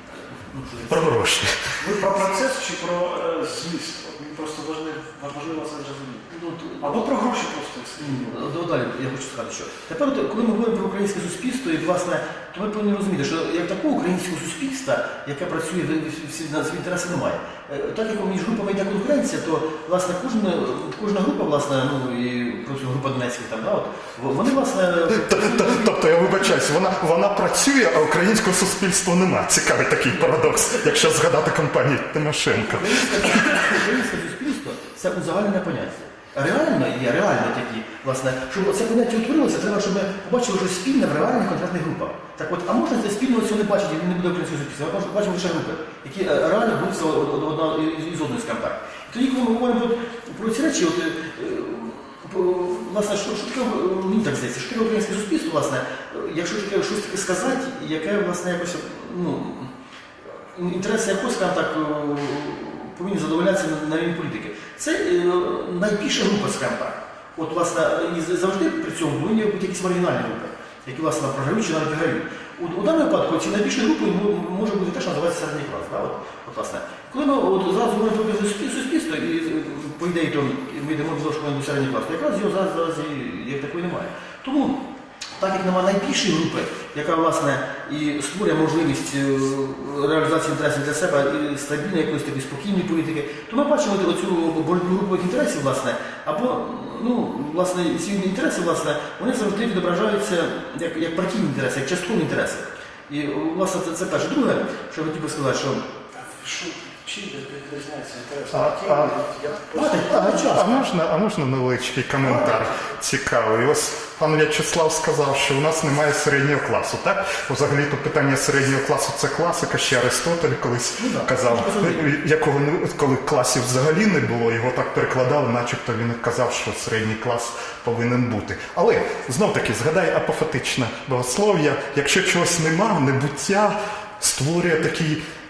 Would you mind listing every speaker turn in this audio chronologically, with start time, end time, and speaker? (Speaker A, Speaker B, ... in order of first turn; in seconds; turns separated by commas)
Speaker A: 0.5-1.1, Speaker B: 0.9-1.7, Speaker C: 1.8-8.3, Speaker A: 6.3-7.0, Speaker A: 8.0-26.0, Speaker B: 25.2-33.5, Speaker A: 32.5-59.7, Speaker A: 60.5-84.8, Speaker A: 85.4-105.8, Speaker C: 106.2-110.2, Speaker B: 108.5-109.1, Speaker A: 109.7-110.8, Speaker B: 110.0-135.2, Speaker A: 112.2-112.7, Speaker A: 121.0-122.1